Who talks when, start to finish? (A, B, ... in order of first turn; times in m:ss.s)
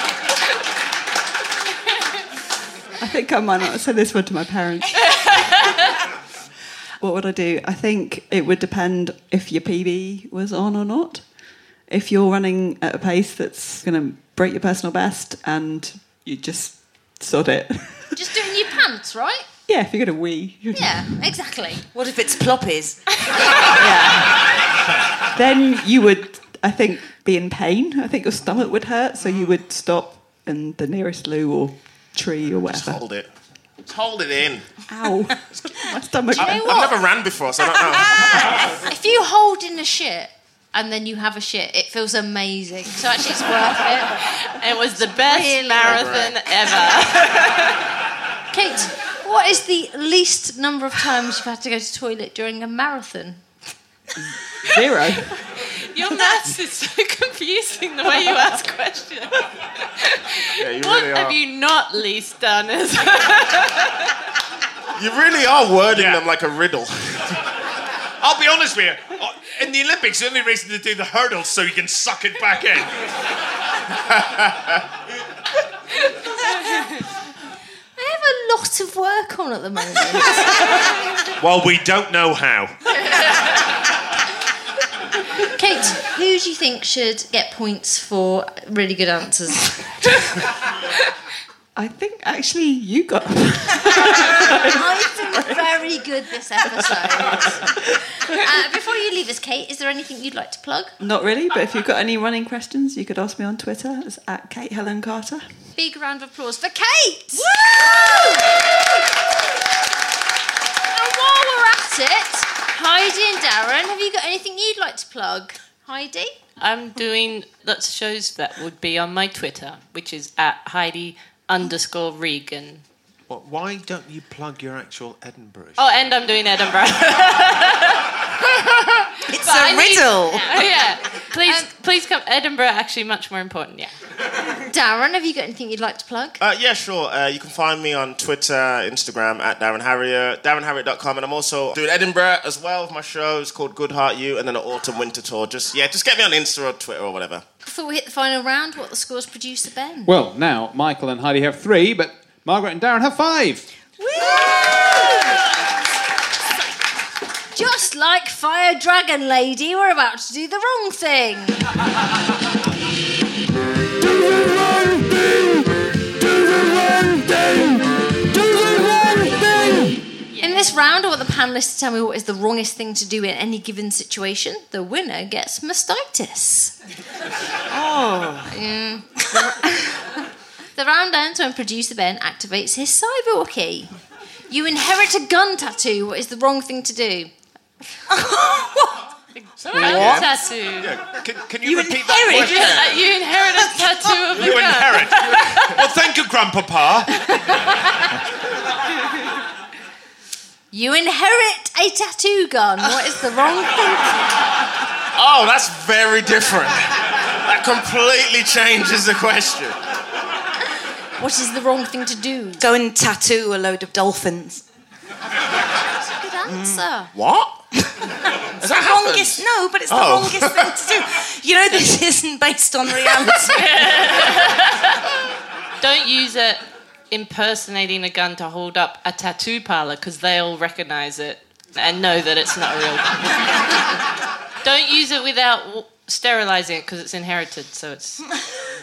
0:03.0-0:05.3 A
0:07.0-0:11.2 A
0:11.9-0:18.2 A
0:18.1-0:19.4 B
0:19.7-0:21.2 A
0:20.7-0:21.8 B
0:21.9-0:23.0 C
0:23.7-0:24.4 A
0:25.3-0:33.0 A
0:32.7-0:33.3 D
0:33.8-0:34.8 D
0:34.9-0:36.9 A
0:36.3-0:37.0 B
0:36.4-0:38.6 D
0:38.0-0:44.2 B
0:44.4-0:47.8 E
0:45.0-0:46.1 B
0:45.8-0:46.3 D
0:48.5-0:53.4 B
0:54.6-0:55.3 A
0:55.4-1:04.1 E
1:00.6-1:01.4 D
1:05.0-1:07.4 D
1:05.9-1:06.2 F
1:08.2-1:12.9 F
1:14.1-1:14.6 F
1:18.0-1:20.7 B
1:21.4-1:22.8 F
1:25.4-1:29.9 B
1:31.8-1:35.6 A
1:34.7-1:37.6 B
1:36.7-1:37.7 A
1:38.3-1:40.9 B
1:41.0-1:45.4 A
1:45.8-1:48.5 B
1:50.9-1:56.3 B
1:56.6-2:02.8 E
2:03.3-2:05.8 F
2:05.8-2:08.2 E
2:09.3-2:10.6 C
2:09.3-2:13.9 E
2:11.4-2:11.7 B
2:14.6-2:16.4 B
2:16.4-2:27.4 D
2:27.6-2:30.1 B
2:30.0-2:33.6 G
2:34.0-2:35.4 B
2:37.5-2:41.6 B
2:50.3-2:50.8 E
2:50.4-2:56.7 B
2:57.7-2:58.6 C
2:58.5-3:00.2 B
3:00.8-3:03.9 B
3:04.5-3:07.3 B
3:08.1-3:09.0 C
3:09.3-3:11.0 E
3:09.6-3:13.0 F
3:09.9-3:10.2 D
3:11.6-3:14.6 C
3:12.2-3:15.7 E
3:14.3-3:17.1 F
3:17.3-3:18.0 B
3:20.7-3:24.3 B
3:25.1-3:29.8 D
3:31.2-3:32.6 B
3:32.6-3:34.6 C
3:36.0-3:37.1 B
3:36.5-3:36.8 C
3:37.1-3:37.7 D
3:38.6-3:40.7 D
3:38.6-3:44.0 C
3:43.5-3:45.0 E
3:45.8-3:46.6 E
3:47.1-3:53.8 E
3:54.6-3:58.3 E